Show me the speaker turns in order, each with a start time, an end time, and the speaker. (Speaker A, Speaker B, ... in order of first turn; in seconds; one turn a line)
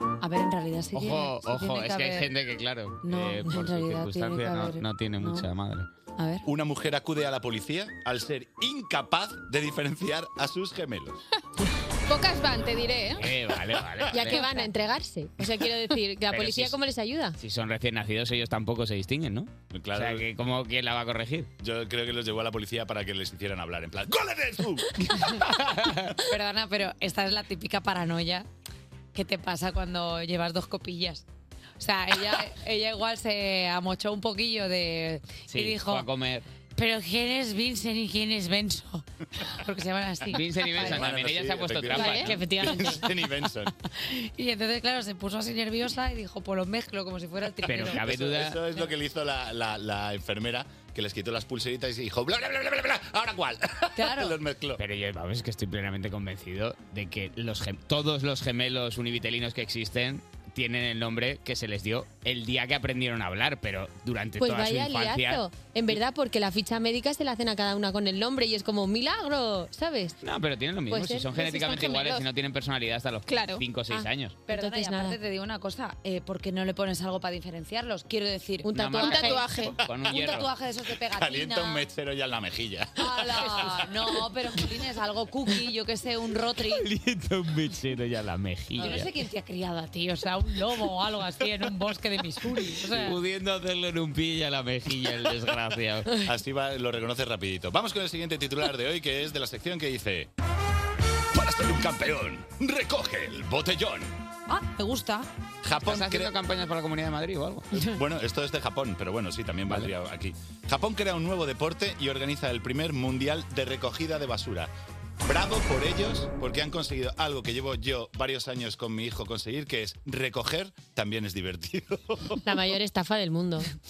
Speaker A: 0.2-2.3
Speaker B: 0.9-5.9
Speaker A: 3.0-5.5
Speaker A: 6.2-6.4
Speaker C: 6.4-11.2
Speaker D: 12.1-13.3
Speaker B: 13.2-14.5
Speaker E: 14.1-17.4
Speaker B: 16.3-16.8
Speaker B: 17.4-21.5
Speaker C: 19.7-20.3
Speaker C: 21.6-25.3
Speaker B: 25.5-26.1
Speaker A: 26.3-28.4
Speaker A: 29.1-31.2
Speaker A: 31.8-36.0
Speaker B: 35.5-36.5
Speaker A: 36.8-41.0
Speaker B: 40.3-42.4
Speaker C: 40.8-43.7
Speaker E: 41.9-43.0
Speaker A: 44.0-48.1
Speaker B: 47.6-48.6
Speaker C: 47.7-54.8
Speaker A: 54.0-54.4
Speaker B: 54.8-65.4
Speaker E: 64.4-70.2
Speaker B: 70.2-74.4
Speaker E: 70.9-72.2
Speaker D: 73.3-73.6
Speaker E: 73.9-75.2
Speaker A: 74.5-79.3
Speaker E: 78.6-79.5
Speaker B: 78.7-80.5
Speaker D: 79.0-79.8
Speaker A: 80.0-81.8
Speaker C: 81.1-84.0
Speaker A: 83.0-86.8
Speaker B: 86.7-89.1
Speaker A: 88.8-93.2
Speaker B: 92.8-96.1
Speaker C: 96.2-100.3
Speaker C: 101.3-104.2
Speaker A: 104.5-105.3
Speaker C: 105.6-106.3
Speaker B: 105.8-107.8
Speaker C: 107.8-114.7
Speaker C: 115.2-122.4
Speaker E: 122.4-123.7